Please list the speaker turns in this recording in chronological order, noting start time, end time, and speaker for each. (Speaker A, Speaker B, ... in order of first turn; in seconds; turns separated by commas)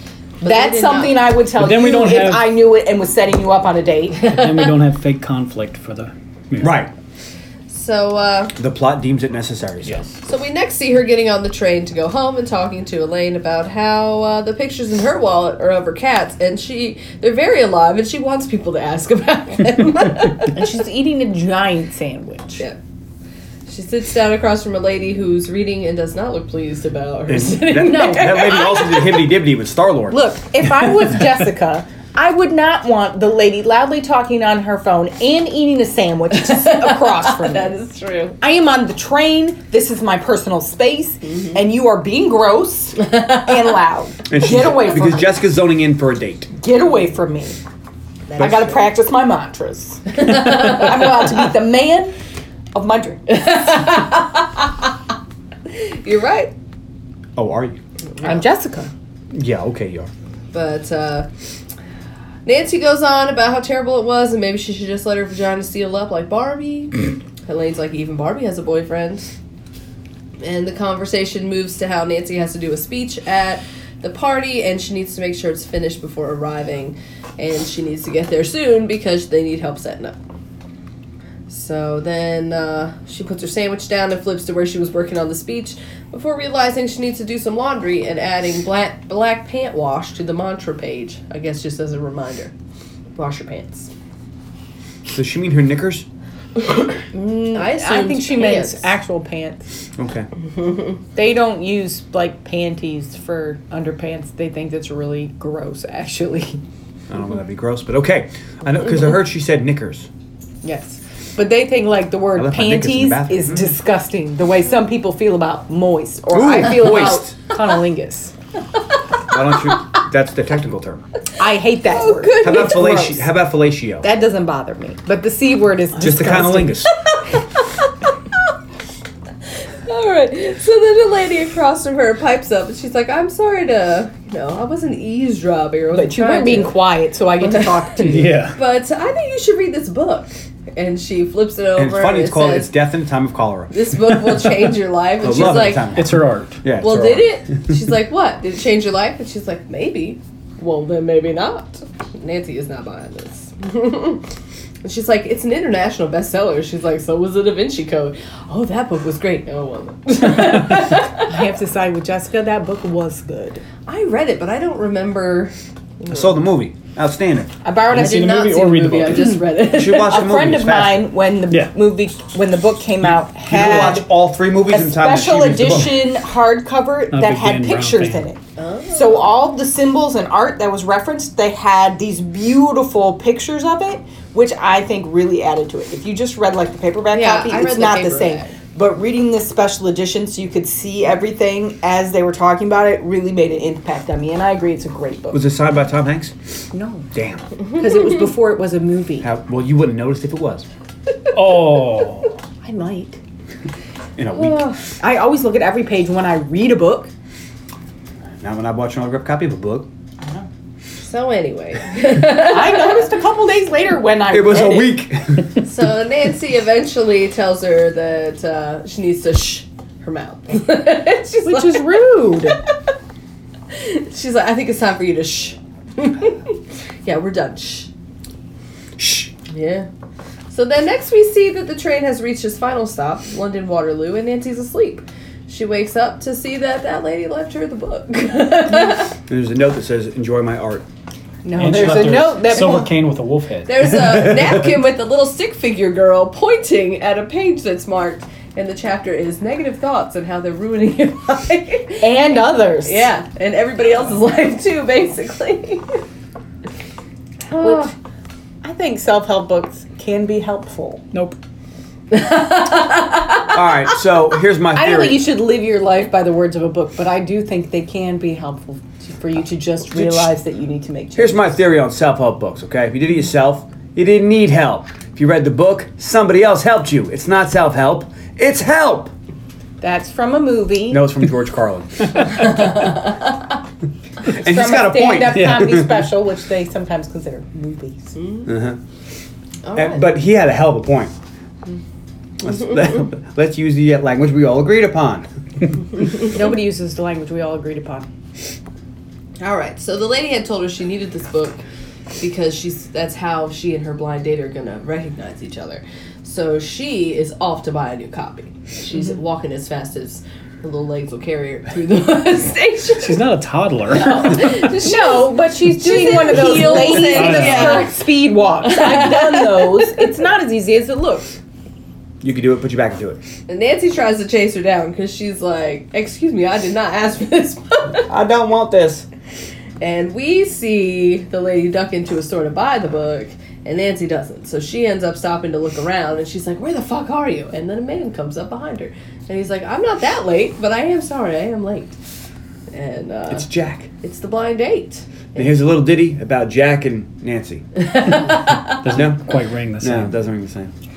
Speaker A: 0.4-4.4, Speaker B: 0.4-1.3, Speaker C: 1.5-2.5, Speaker C: 4.3-6.8, Speaker D: 6.6-6.9, Speaker B: 7.7-8.6, Speaker D: 8.6-10.1, Speaker C: 9.8-10.1, Speaker B: 10.2-20.6, Speaker A: 20.5-22.6, Speaker B: 23.7-29.2, Speaker D: 27.3-30.2, Speaker A: 27.8-29.0, Speaker A: 30.1-37.8, Speaker B: 36.3-38.4, Speaker A: 38.4-45.3, Speaker B: 41.3-41.5, Speaker D: 44.3-46.5, Speaker A: 46.6-47.6, Speaker B: 48.3-48.9, Speaker A: 48.4-52.1, Speaker B: 50.5-50.8, Speaker A: 52.7-53.5, Speaker B: 53.3-54.9, Speaker B: 55.7-56.5, Speaker D: 57.4-57.8, Speaker B: 58.2-58.4, Speaker A: 58.2-58.9, Speaker D: 59.3-60.1, Speaker B: 60.5-61.3, Speaker B: 62.5-69.3, Speaker B: 70.4-80.2, Speaker B: 81.5-92.5, Speaker B: 93.2-93.9, Speaker D: 95.1-96.1, Speaker A: 97.1-99.6, Speaker B: 97.5-98.9, Speaker D: 100.0-100.3, Speaker B: 100.6-101.0, Speaker A: 101.2-106.6, Speaker D: 107.1-110.1, Speaker A: 110.6-118.3, Speaker D: 112.3-113.7, Speaker D: 116.3-117.4, Speaker D: 119.3-121.0, Speaker A: 121.4-123.3, Speaker B: 121.8-123.1, Speaker D: 122.4-124.1, Speaker A: 124.0-126.8, Speaker D: 126.0-126.9, Speaker B: 127.1-128.1, Speaker B: 129.9-136.8, Speaker A: 135.9-138.3, Speaker B: 137.4-142.7, Speaker C: 138.0-138.6, Speaker D: 141.8-144.5, Speaker B: 143.7-146.0, Speaker D: 145.2-147.4, Speaker C: 145.9-146.6, Speaker B: 146.8-154.3, Speaker B: 154.8-161.3, Speaker A: 161.2-163.6, Speaker B: 163.9-166.4, Speaker D: 166.1-167.5, Speaker A: 167.6-168.5, Speaker C: 167.9-169.4, Speaker B: 167.9-170.3, Speaker D: 169.7-171.1, Speaker A: 170.0-174.1, Speaker D: 173.0-176.0, Speaker A: 174.6-178.4, Speaker C: 177.1-178.3, Speaker B: 178.6-179.3, Speaker A: 178.9-195.4, Speaker B: 187.1-188.5, Speaker D: 195.3-196.3, Speaker A: 196.7-197.1, Speaker D: 197.1-197.5, Speaker A: 197.7-199.3, Speaker D: 199.2-200.7, Speaker C: 201.3-202.3, Speaker A: 202.6-203.2, Speaker D: 204.2-204.7, Speaker B: 204.3-204.8, Speaker A: 205.0-207.1, Speaker D: 208.4-209.9, Speaker B: 211.0-213.1, Speaker A: 212.2-215.0, Speaker D: 214.3-215.6, Speaker B: 215.6-222.1, Speaker A: 221.4-222.6, Speaker B: 223.7-227.9, Speaker D: 229.0-229.3, Speaker B: 229.5-229.9, Speaker B: 230.5-239.1, Speaker D: 239.3-240.8, Speaker A: 241.4-242.9, Speaker C: 241.6-244.0, Speaker B: 243.7-256.0, Speaker A: 252.0-253.1, Speaker B: 257.5-257.9, Speaker A: 257.6-257.9, Speaker A: 258.6-261.1, Speaker C: 261.1-261.4, Speaker B: 262.1-263.9, Speaker D: 263.5-265.2, Speaker A: 264.7-271.4, Speaker D: 269.9-270.3, Speaker D: 271.2-279.1, Speaker A: 279.8-281.1, Speaker D: 280.9-282.8, Speaker B: 282.3-283.3, Speaker D: 284.3-286.0, Speaker A: 284.4-288.2, Speaker B: 288.2-288.5, Speaker D: 288.5-288.8, Speaker B: 289.6-290.1, Speaker D: 289.8-291.1, Speaker D: 292.4-295.3, Speaker A: 296.2-298.1, Speaker B: 299.4-301.6, Speaker B: 302.2-313.2, Speaker C: 313.0-314.8, Speaker B: 313.9-318.0, Speaker A: 314.4-321.3, Speaker C: 316.9-317.9, Speaker B: 318.6-320.1, Speaker D: 322.2-323.2, Speaker B: 323.5-328.1, Speaker D: 328.1-329.1, Speaker B: 329.8-342.0, Speaker B: 342.7-343.5, Speaker D: 343.3-343.9, Speaker B: 344.0-345.5, Speaker D: 345.4-347.6, Speaker B: 347.8-348.9, Speaker C: 348.4-350.1, Speaker D: 348.9-350.7